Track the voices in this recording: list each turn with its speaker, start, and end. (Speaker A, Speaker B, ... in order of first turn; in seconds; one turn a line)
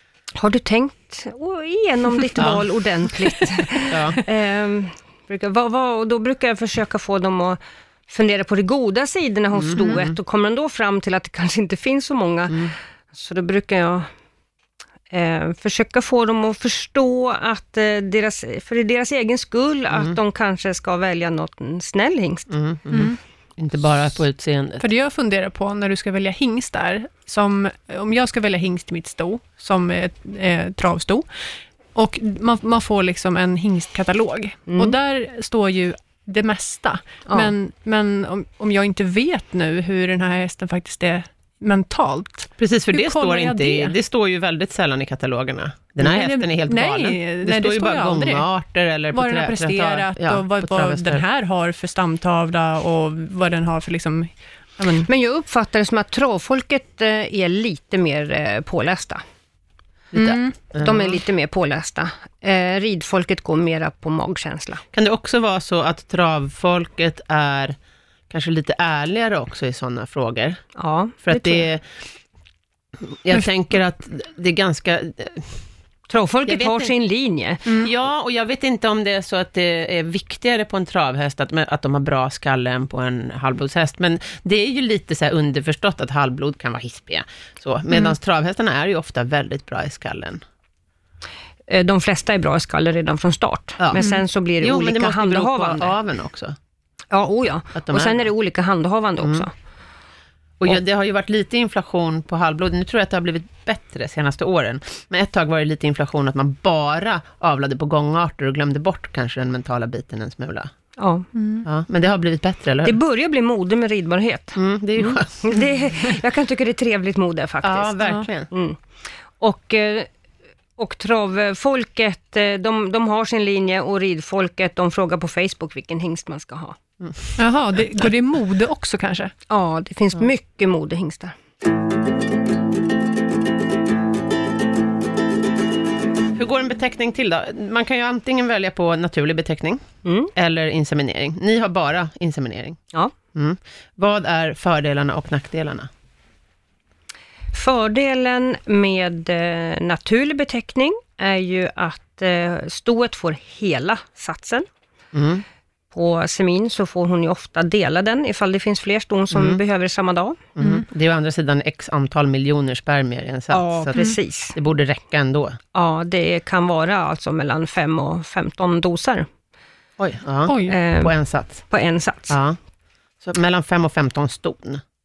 Speaker A: 0.3-14.1
Speaker B: 2.4-2.7
Speaker B: 3.9-4.2
Speaker B: 9.5-10.2
Speaker A: 15.1-22.5
Speaker B: 22.5-24.9
Speaker C: 22.9-23.2
Speaker C: 24.8-31.3
Speaker C: 31.9-43.9
Speaker A: 34.7-34.9
Speaker B: 42.6-51.2
Speaker C: 46.0-48.5
Speaker C: 49.1-55.1
Speaker A: 55.0-59.2
Speaker B: 60.1-61.2
Speaker C: 60.1-60.5
Speaker A: 60.8-64.8
Speaker B: 64.9-67.8
Speaker B: 68.3-70.6
Speaker A: 70.8-71.7
Speaker B: 71.2-71.9
Speaker B: 73.0-75.6
Speaker A: 76.1-77.7
Speaker B: 76.5-76.9
Speaker B: 77.8-90.4
Speaker A: 91.7-95.9
Speaker B: 93.8-94.0
Speaker C: 94.0-94.2
Speaker B: 94.6-96.5
Speaker A: 97.1-99.5
Speaker B: 97.7-98.3
Speaker B: 99.2-99.5
Speaker B: 100.6-110.7
Speaker A: 111.0-111.3
Speaker C: 111.3-111.7
Speaker B: 111.6-113.0
Speaker A: 112.8-118.8
Speaker B: 114.5-115.6
Speaker B: 117.6-118.5
Speaker C: 118.0-118.3
Speaker A: 119.4-120.1
Speaker A: 120.8-126.8
Speaker B: 127.0-127.3
Speaker C: 127.4-129.3
Speaker A: 129.5-131.3
Speaker B: 136.3-142.8
Speaker A: 140.0-140.3
Speaker B: 143.3-145.9
Speaker A: 147.5-154.7
Speaker B: 155.1-155.4
Speaker A: 155.9-160.4
Speaker B: 159.3-159.6
Speaker B: 160.6-165.6
Speaker C: 160.6-160.8
Speaker A: 163.5-164.6
Speaker A: 165.7-169.3
Speaker B: 170.0-171.7
Speaker C: 170.4-170.8
Speaker A: 170.7-172.4
Speaker B: 172.3-172.6
Speaker B: 173.2-174.8